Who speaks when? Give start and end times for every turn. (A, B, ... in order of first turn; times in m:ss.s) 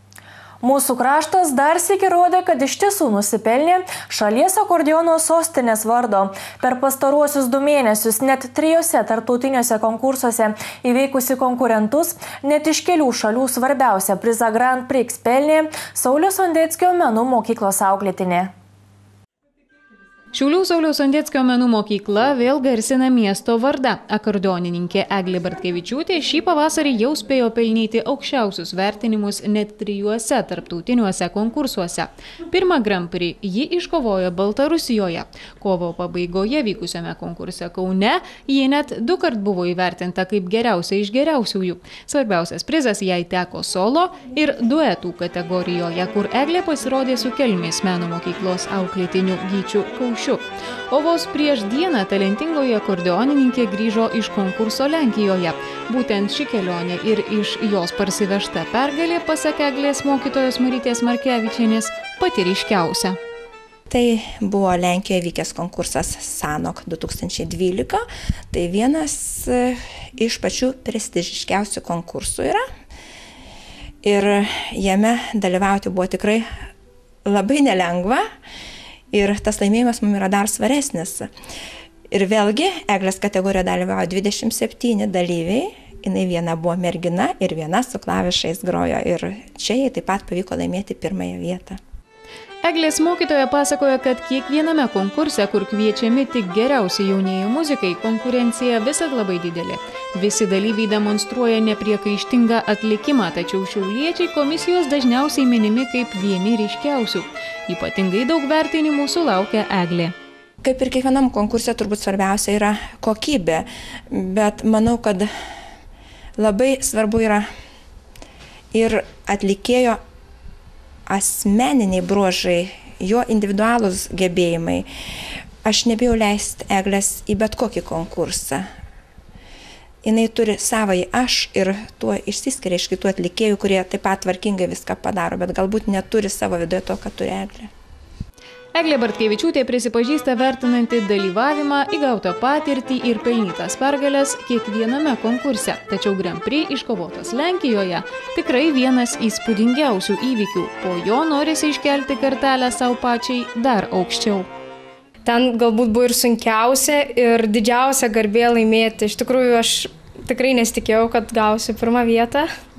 0:00.6-0:18.5 A
0:20.3-1:03.2 B
1:03.9-1:12.6 C
1:14.0-1:16.4 C
1:17.2-1:18.2 C
1:19.1-1:21.3 C
1:22.1-1:31.8 C
1:32.6-1:50.1 B
1:50.6-1:55.3 C
1:56.4-1:57.5 C
1:58.7-2:00.0 C
2:01.1-2:04.8 C
2:05.6-2:08.6 C
2:10.0-2:17.7 C
2:18.7-2:34.5 B
2:35.2-2:42.5 D